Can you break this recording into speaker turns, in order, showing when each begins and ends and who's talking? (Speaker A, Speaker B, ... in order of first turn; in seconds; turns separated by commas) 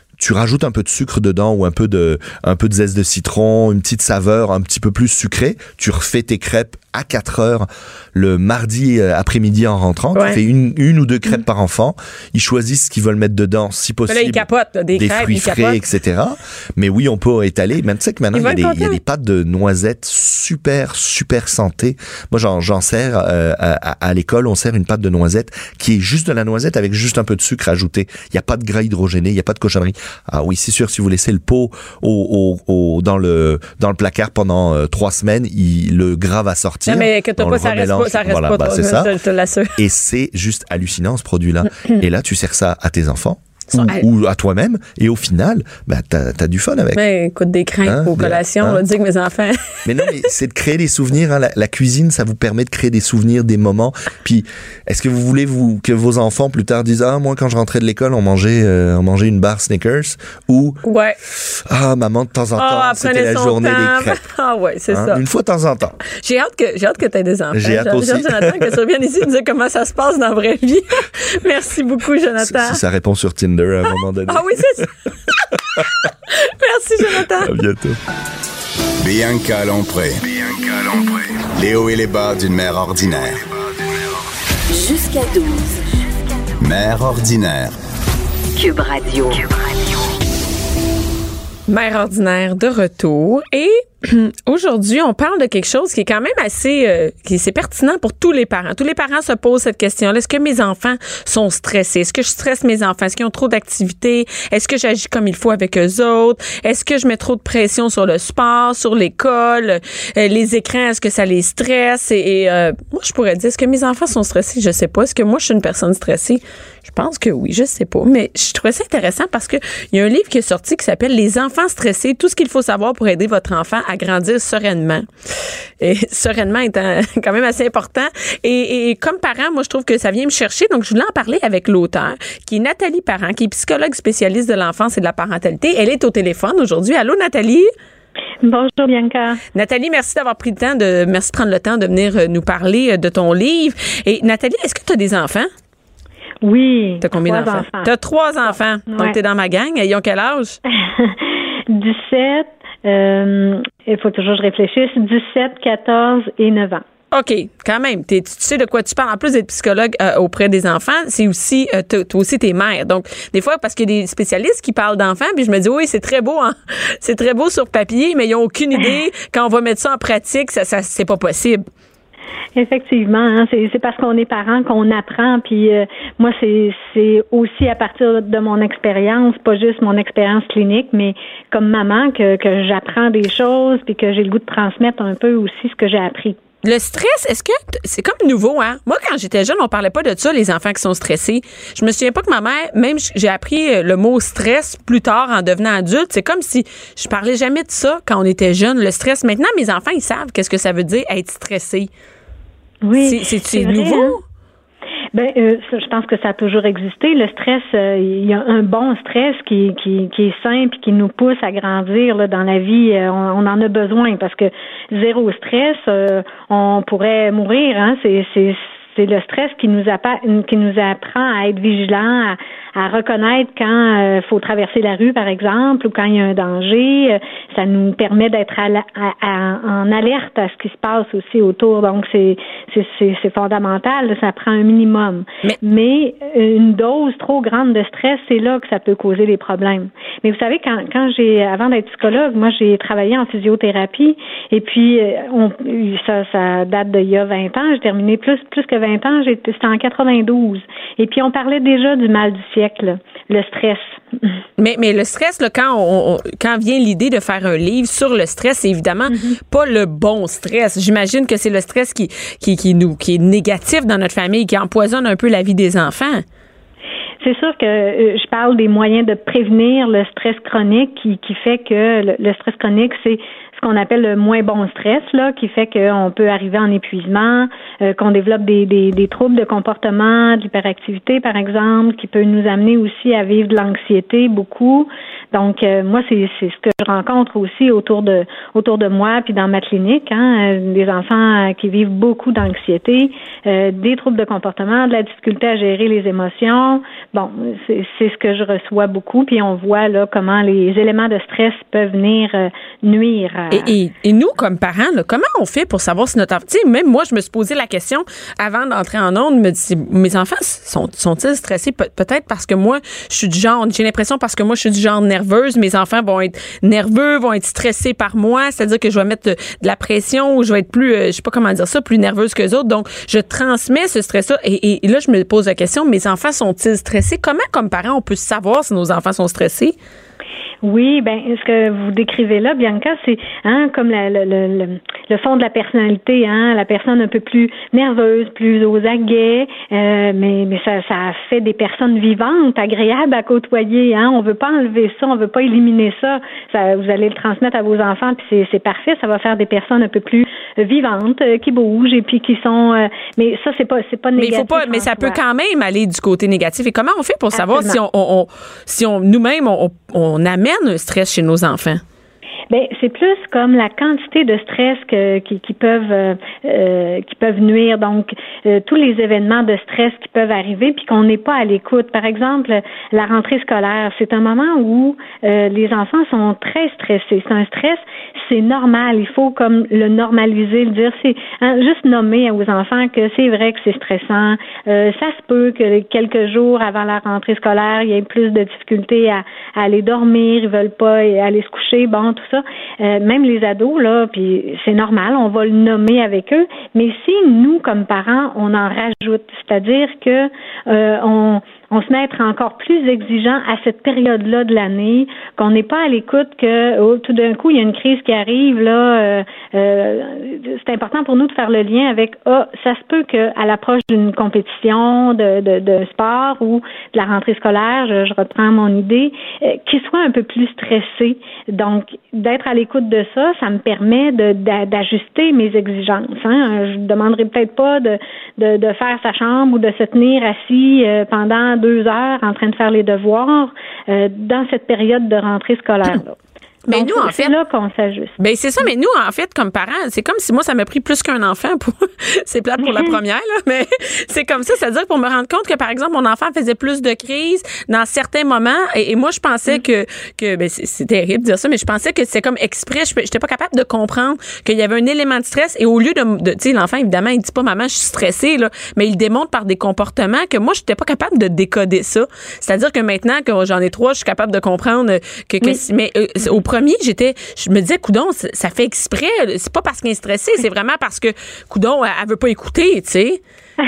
Speaker A: 0.2-39.1, Speaker B: 10.2-10.4, Speaker B: 14.1-15.8, Speaker B: 18.3-19.0, Speaker B: 36.9-39.8, Speaker A: 39.8-47.0, Speaker B: 43.8-44.1, Speaker B: 47.0-49.8, Speaker A: 47.9-48.8, Speaker A: 49.9-60.8, Speaker B: 60.8-61.2, Speaker A: 61.4-64.2, Speaker B: 62.6-65.2, Speaker A: 64.9-66.0, Speaker B: 66.0-72.8, Speaker A: 67.5-68.8, Speaker A: 72.4-74.9, Speaker B: 74.3-74.9, Speaker B: 76.3-77.5, Speaker A: 77.2-78.0, Speaker C: 79.0-84.2, Speaker D: 84.7-85.8, Speaker C: 86.6-87.7, Speaker D: 88.5-89.7, Speaker B: 91.7-125.1, Speaker B: 125.8-137.7, Speaker E: 138.4-139.4, Speaker B: 139.5-145.5, Speaker E: 146.4-147.9, Speaker B: 147.0-150.6, Speaker E: 148.9-149.2, Speaker E: 150.9-156.8, Speaker B: 157.1-171.6, Speaker E: 172.6-186.4, Speaker B: 186.6-201.9, Speaker E: 202.8-204.2, Speaker B: 203.0-204.2, Speaker E: 205.1-254.3, Speaker B: 254.6-266.2, Speaker E: 259.1-259.4, Speaker E: 267.2-303.7, Speaker B: 303.5-329.8, Speaker E: 330.6-355.2, Speaker B: 354.2-361.8, Speaker E: 357.3-357.8, Speaker E: 362.5-436.2, Speaker B: 436.7-437.3, Speaker E: 436.7-438.2, Speaker B: 438.2-473.2, Speaker E: 442.6-442.9